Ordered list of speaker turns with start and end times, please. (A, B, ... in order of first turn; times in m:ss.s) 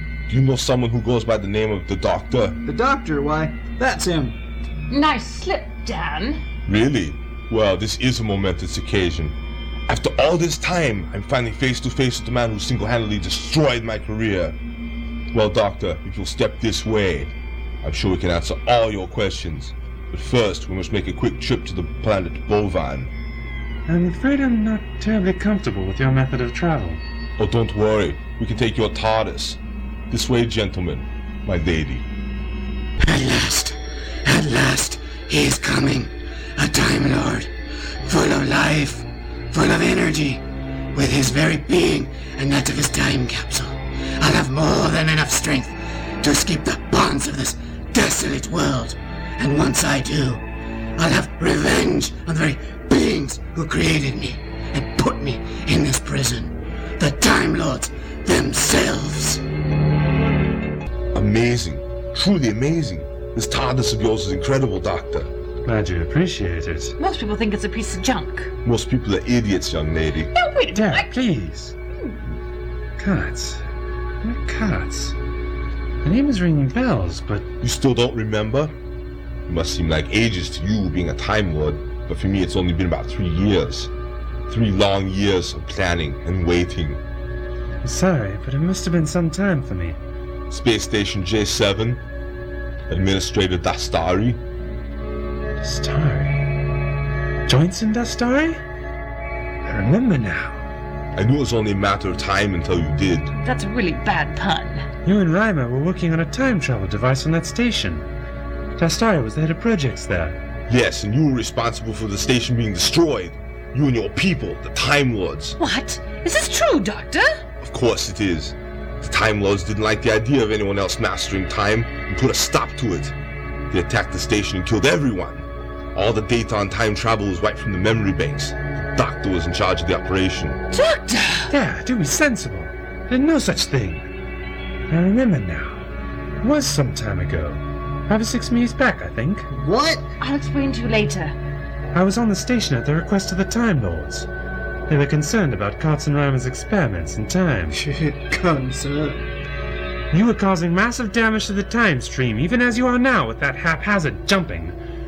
0:00.3-0:02.6 A
0:02.6-0:04.4 B
0:04.9-0:06.4 C
0:06.6-0:09.4 A
0:09.9-0:14.6 A
0:15.3-0:23.1 A
0:23.9-0:27.0 D
0:27.4-0:29.6 A
0:30.1-0:32.0 A
0:33.0-0:59.4 E
1:01.1-1:05.3 A
1:05.6-1:07.0 D
1:07.0-1:08.5 C
1:08.6-1:10.3 A
1:10.3-1:11.1 C
1:10.7-1:11.7 D
1:13.0-1:13.6 D
1:14.2-1:15.2 D
1:16.0-1:17.5 D
1:17.6-1:18.7 A
1:19.5-1:23.9 A
1:24.5-1:27.0 A
1:27.8-1:30.0 D
1:30.5-1:32.0 A
1:32.9-1:34.4 A
1:35.6-1:36.5 D
1:37.4-1:38.6 D
1:39.6-1:40.7 D
1:41.1-1:43.3 A
1:43.4-1:44.8 C
1:45.0-1:48.1 D
1:48.8-1:50.4 D
1:50.7-1:55.6 A
1:55.6-1:57.3 C
1:57.6-2:03.1 A
2:03.7-2:10.6 A
2:10.7-2:11.5 C
2:11.5-2:14.1 D
2:14.9-2:15.9 D
2:16.4-2:19.5 D
2:19.5-2:20.0 B
2:20.2-2:21.4 C
2:21.9-2:24.3 D
2:24.9-2:27.8 D
2:27.7-2:29.2 B
2:30.1-2:34.8 D